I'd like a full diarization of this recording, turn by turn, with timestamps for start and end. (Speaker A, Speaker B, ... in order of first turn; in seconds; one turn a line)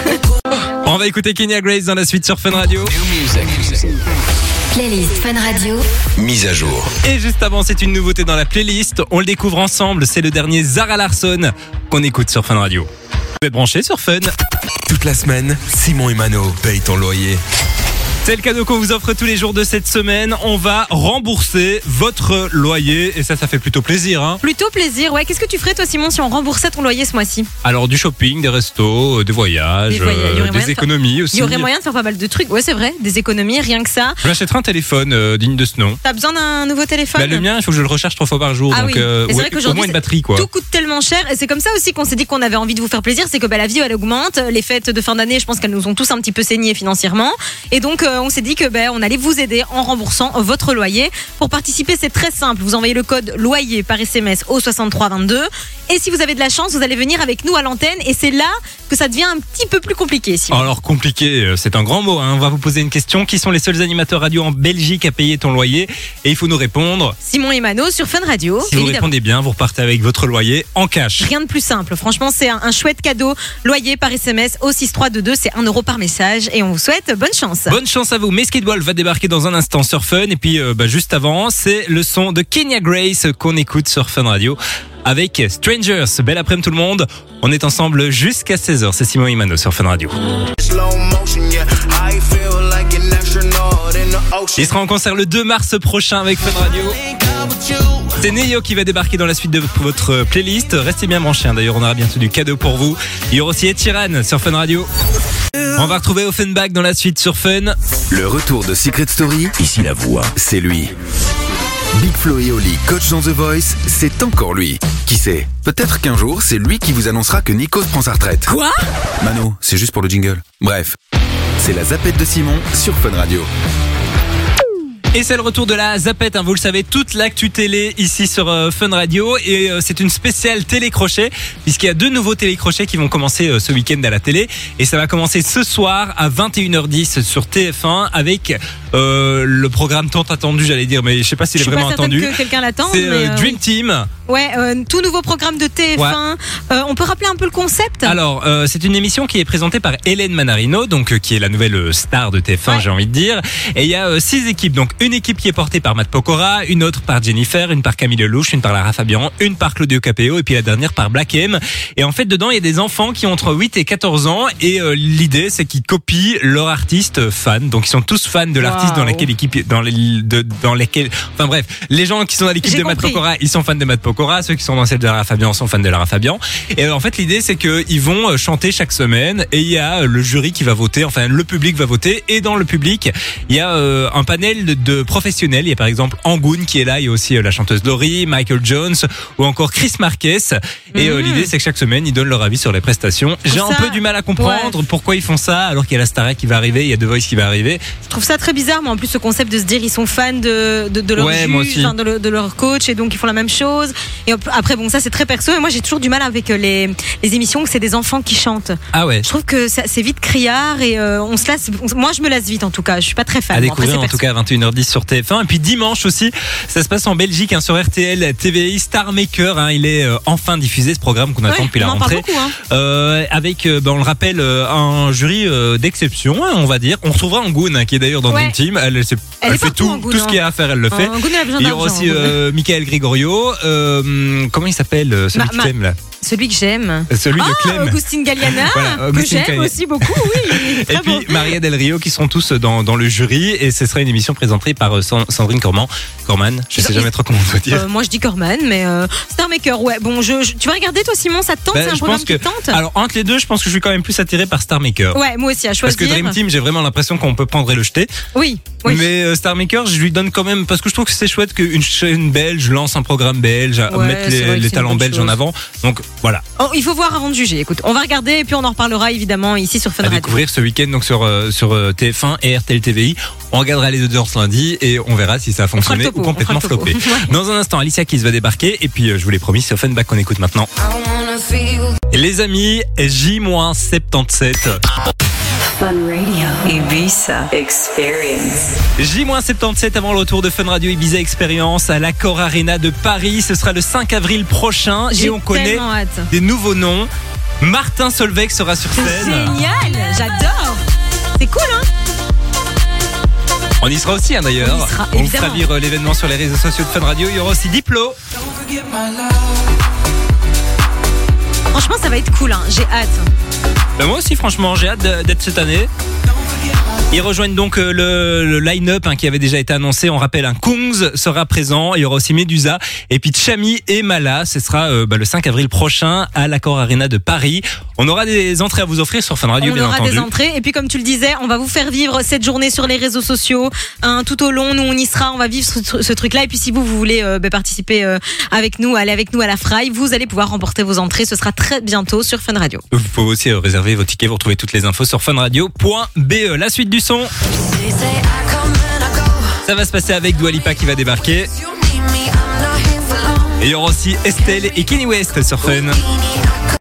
Speaker A: 0.8-3.0
Speaker B: 2.9-4.0
Speaker C: 4.7-5.8
Speaker B: 6.2-6.9
Speaker A: 7.0-12.9
Speaker A: 13.4-14.3
Speaker B: 14.9-17.4
Speaker A: 18.2-24.4
Speaker D: 24.4-27.5
Speaker A: 27.6-31.7
Speaker D: 29.9-34.2
Speaker A: 34.2-36.0
Speaker D: 36.0-37.5
Speaker A: 37.1-40.5
Speaker D: 38.7-60.7
Speaker A: 60.5-67.2
Speaker D: 67.2-69.1
Speaker A: 68.7-71.3
Speaker D: 71.2-77.8
Speaker A: 77.7-90.1
Speaker E: 90.6-94.6
Speaker A: 94.5-97.0
Speaker B: 97.3-98.0
Speaker A: 98.1-104.9
Speaker A: 105.7-107.8
Speaker B: 108.1-110.9
Speaker B: 112.0-118.5
Speaker D: 118.5-118.8
Speaker B: 119.2-121.0
Speaker B: 121.6-123.5
Speaker A: 125.1-142.3
Speaker D: 141.6-143.6
Speaker A: 142.9-144.1
Speaker D: 144.3-148.2
Speaker A: 148.0-197.8
Speaker D: 168.6-169.3
Speaker D: 172.6-173.2
Speaker D: 190.9-191.5
Speaker D: 193.5-194.8
Speaker D: 198.1-214.2
Speaker A: 201.2-201.9
Speaker A: 208.9-209.3
Speaker A: 213.5-236.0
Speaker D: 221.5-222.6
Speaker D: 228.3-228.6
Speaker D: 229.4-232.4
Speaker D: 235.3-241.5
Speaker A: 237.1-247.8
Speaker D: 246.8-247.1
Speaker D: 247.7-252.8
Speaker A: 251.7-255.2
Speaker D: 255.1-256.4
Speaker A: 255.8-258.1
Speaker D: 258.3-259.1
Speaker A: 258.8-266.4
Speaker D: 263.9-265.3
Speaker D: 266.6-270.4
Speaker A: 270.0-280.7
Speaker D: 275.8-277.3
Speaker C: 281.2-281.7
Speaker A: 282.1-284.8
Speaker F: 285.8-288.7
Speaker A: 289.0-297.1
Speaker D: 295.1-296.3
Speaker A: 297.6-299.6
Speaker D: 298.9-300.8
Speaker D: 301.4-301.9
Speaker A: 303.8-308.2
Speaker D: 304.6-305.7
Speaker D: 311.7-313.2
Speaker A: 314.0-315.9
Speaker A: 317.1-330.3
Speaker D: 329.6-342.8
Speaker A: 342.9-347.3
Speaker C: 348.3-349.1
Speaker A: 349.6-351.5
Speaker C: 351.9-353.5
Speaker A: 353.6-356.0